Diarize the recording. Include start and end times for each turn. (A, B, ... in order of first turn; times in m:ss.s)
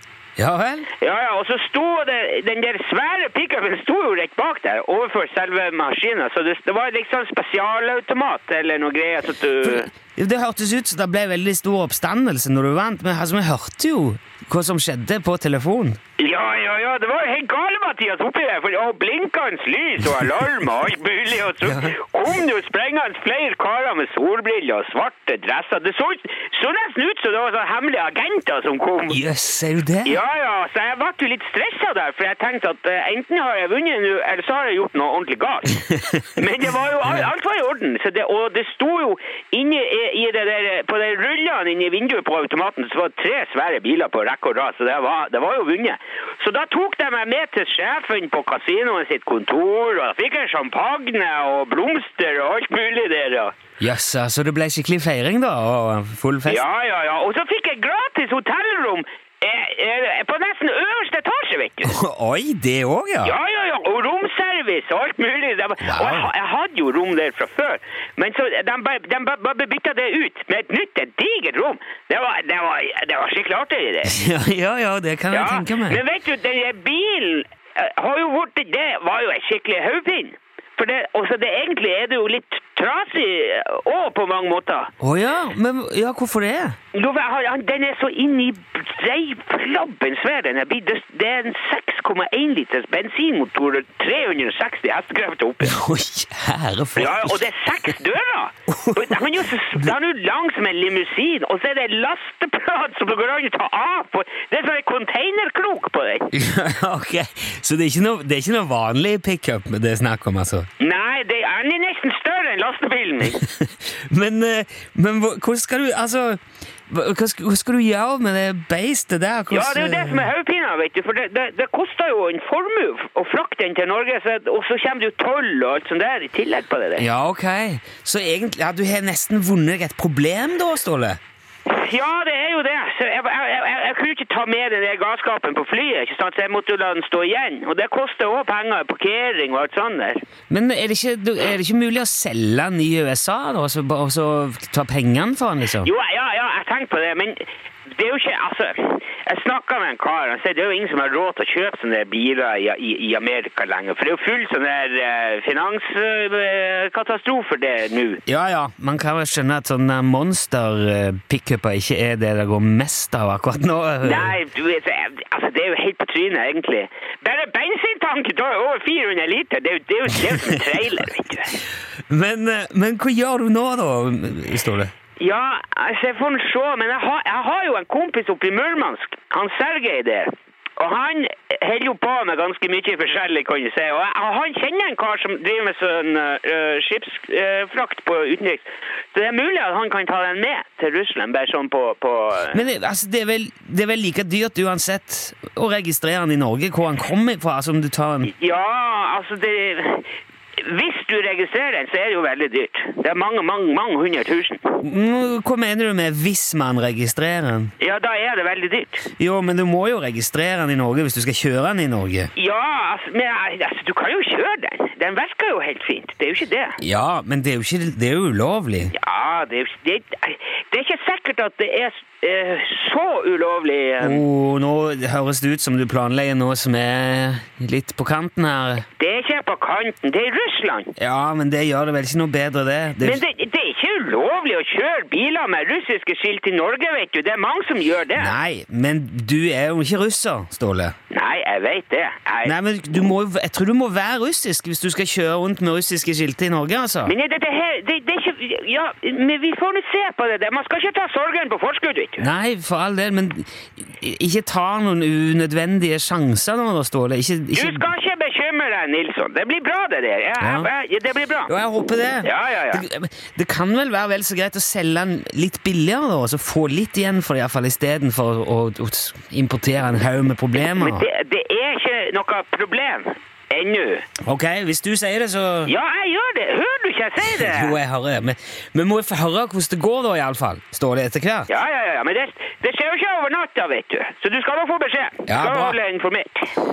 0:00.4-0:00.9 A
0:01.0-0:09.9 B
0:09.6-0:16.0 A
0:16.2-0:29.2 B
0:21.6-0:22.0 A
0:29.1-0:30.2 A
0:30.0-0:53.5 B
0:53.8-0:56.6 A
0:56.5-1:01.9 B
1:01.8-1:03.4 A
1:03.2-1:14.1 B
1:05.8-1:06.3 A
1:14.0-1:16.0 A
1:15.3-1:24.9 B
1:25.0-1:26.8 A
1:26.9-1:35.7 B
1:35.6-1:37.9 A
1:37.0-1:46.3 B
1:38.7-1:39.9 A
1:46.3-1:50.7 A
1:50.8-1:53.4 B
1:53.2-2:00.3 A
1:59.5-2:07.0 B
2:07.0-2:11.2 A
2:11.7-2:20.2 B
2:20.5-2:25.9 A
2:25.8-2:38.2 B
2:38.2-2:44.4 A
2:44.1-2:51.6 B
2:52.1-2:54.9 A
2:55.2-3:12.6 B
3:12.5-3:18.3 A
3:18.3-3:24.8 B
3:24.8-3:27.7 A
3:27.8-3:29.0 B
3:29.1-3:32.3 A
3:32.4-3:36.8 B
3:36.8-3:38.9 A
3:38.9-3:44.2 B
3:44.0-3:48.8 A
3:49.0-3:50.9 B
3:51.0-3:53.2 A
3:53.0-3:58.3 B
3:58.1-4:00.9 A
4:01.1-4:02.5 B
4:02.4-4:07.1 A
4:07.0-4:12.2 B
4:12.2-4:17.8 A
4:17.5-4:21.5 B
4:20.4-4:20.7 A
4:21.5-4:31.1 A
4:22.2-4:22.8 B
4:30.6-4:34.0 B
4:34.2-4:35.7 A
4:35.7-4:37.7 B
4:37.2-4:41.5 A
4:41.5-4:46.5 B
4:45.3-4:45.8 A